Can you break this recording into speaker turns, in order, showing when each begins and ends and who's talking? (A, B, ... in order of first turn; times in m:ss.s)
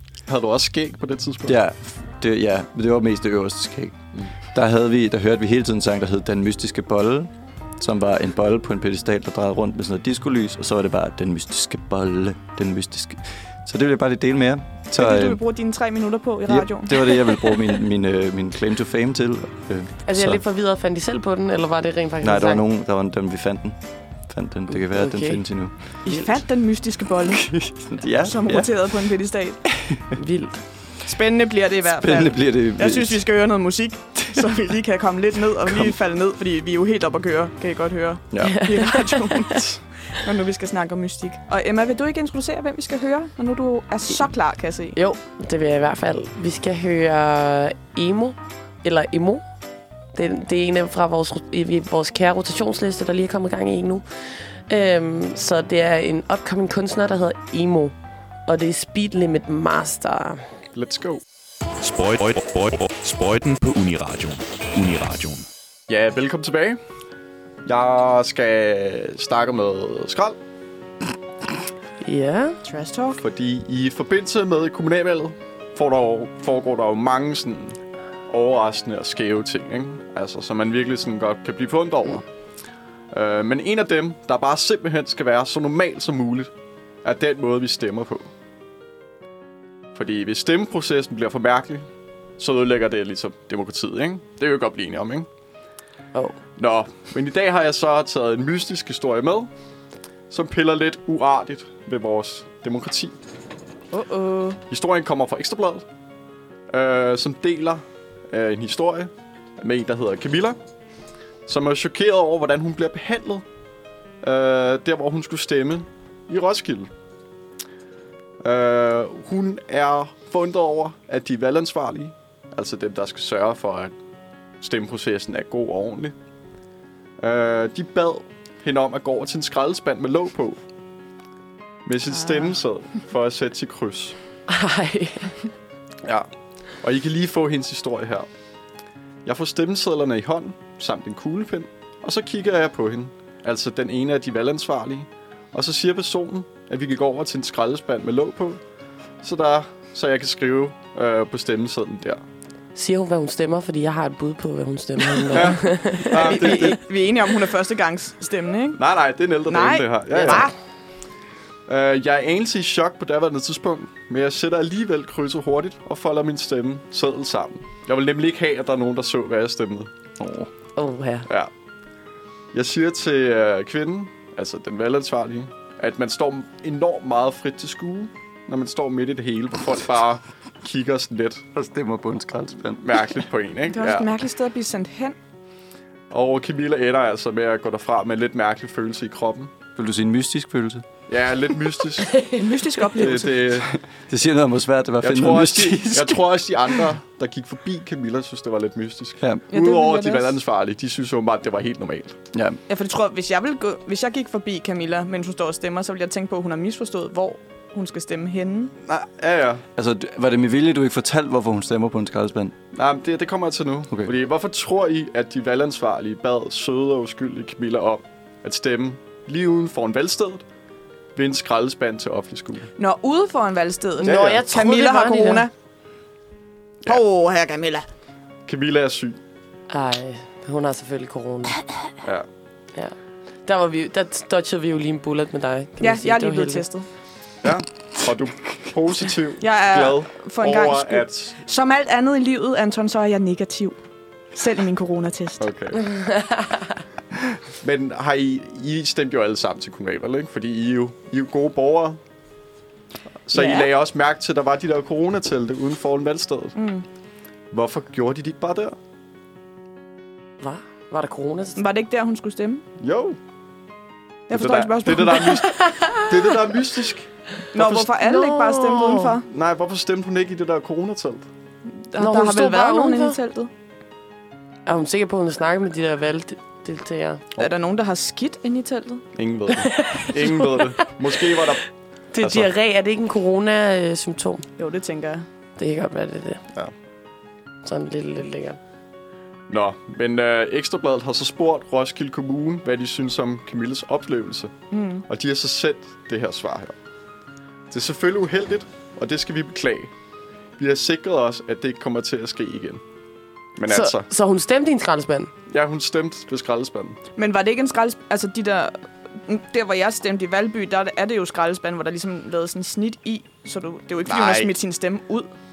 0:00.3-0:01.6 A
0:01.4-0:15.4 B
0:15.0-0:17.6 C
0:16.5-0:20.4 B
0:20.1-0:22.6 D
0:22.2-0:26.0 B
0:24.7-0:25.4 D
0:26.0-0:27.6 C
0:27.3-0:28.7 B
0:28.2-0:29.6 C
0:30.2-0:30.6 D
0:31.0-0:45.0 C
0:32.0-0:33.2 B
0:38.3-0:38.7 B
0:38.4-0:39.6 D
0:45.0-0:49.4 D
0:50.1-0:54.0 D
0:54.7-0:57.9 D
0:58.5-1:00.4 D
1:00.8-1:01.2 A
1:01.8-1:05.4 E
1:05.9-1:06.8 A
1:07.6-1:10.4 A
1:12.0-1:12.6 D
1:12.6-1:13.2 C
1:13.2-1:22.2 A
1:23.1-1:26.5 A
1:27.0-1:28.3 A
1:30.0-1:31.9 A
1:32.4-1:35.3 A
1:36.6-1:39.5 A
1:40.3-1:43.2 A
1:43.9-1:44.6 C
1:44.7-1:45.8 A
1:46.7-1:50.6 A
1:51.5-1:53.4 A
1:54.2-1:56.9 A
1:58.4-2:03.9 A
2:04.6-2:06.2 A
2:07.2-2:10.6 A
2:11.9-2:14.2 A
2:12.1-2:12.6 C
2:14.5-2:15.4 D
2:16.8-2:18.3 A
2:19.2-2:28.6 A
2:29.2-2:32.2 A
2:32.8-2:36.7 D
2:35.3-2:36.8 A
2:36.1-2:38.8 C
2:38.8-2:40.5 A
2:39.5-2:40.5 C
2:41.7-2:49.9 A
2:50.2-2:50.5 B
2:50.8-2:51.3 D
2:52.5-3:01.5 A
3:01.5-3:03.2 B
3:02.8-3:04.1 A
3:03.7-3:05.2 C
3:06.1-3:09.5 A
3:09.8-3:10.8 B
3:11.1-3:12.2 A
3:12.2-3:13.6 C
3:13.0-3:13.7 A
3:13.6-3:16.4 B
3:15.0-3:22.2 A
3:19.2-3:19.4 B
3:19.5-3:20.3 C
3:22.3-3:22.6 B
3:22.7-3:28.7 C
3:28.8-3:29.6 A
3:29.8-3:32.6 B
3:32.7-3:40.4 A
3:41.2-3:42.7 A
3:42.8-3:45.5 C
3:44.0-3:44.4 A
3:44.0-3:45.5 D
3:46.8-3:47.9 C
3:48.5-3:49.2 A
3:49.7-3:51.6 D
3:53.5-3:56.7 D
3:55.8-3:56.9 C
3:57.4-4:01.3 A
3:59.4-4:03.8 C
4:04.4-4:05.5 C
4:05.4-4:05.9 A
4:06.2-4:06.5 D
4:07.6-4:12.0 A
4:13.3-4:16.6 A
4:13.3-4:13.7 C
4:16.6-4:16.8 C
4:17.5-4:18.8 A
4:20.4-4:21.6 D
4:21.6-4:22.6 C
4:22.8-4:23.2 A
4:24.3-4:25.5 C
4:24.3-4:27.1 A
4:25.7-4:26.0 D
4:27.5-4:29.3 C
4:27.5-4:29.2 D
4:29.3-4:31.3 A
4:31.8-4:33.5 C
4:32.0-4:33.2 D
4:34.7-4:37.2 D
4:37.4-4:39.1 C
4:39.2-4:41.6 A
4:39.6-4:40.6 D
4:42.1-4:44.5 D
4:42.2-4:42.5 A
4:44.6-4:45.2 C
4:45.6-4:46.4 D
4:47.6-4:48.6 D
4:49.5-4:54.5 A
4:54.7-4:55.1 C
4:55.1-4:56.7 A
4:57.7-4:59.9 A
5:00.6-5:02.8 A
5:03.6-5:04.1 A
5:03.7-5:05.3 D
5:05.5-5:07.0 A
5:07.2-5:15.3 C
5:14.1-5:14.6 A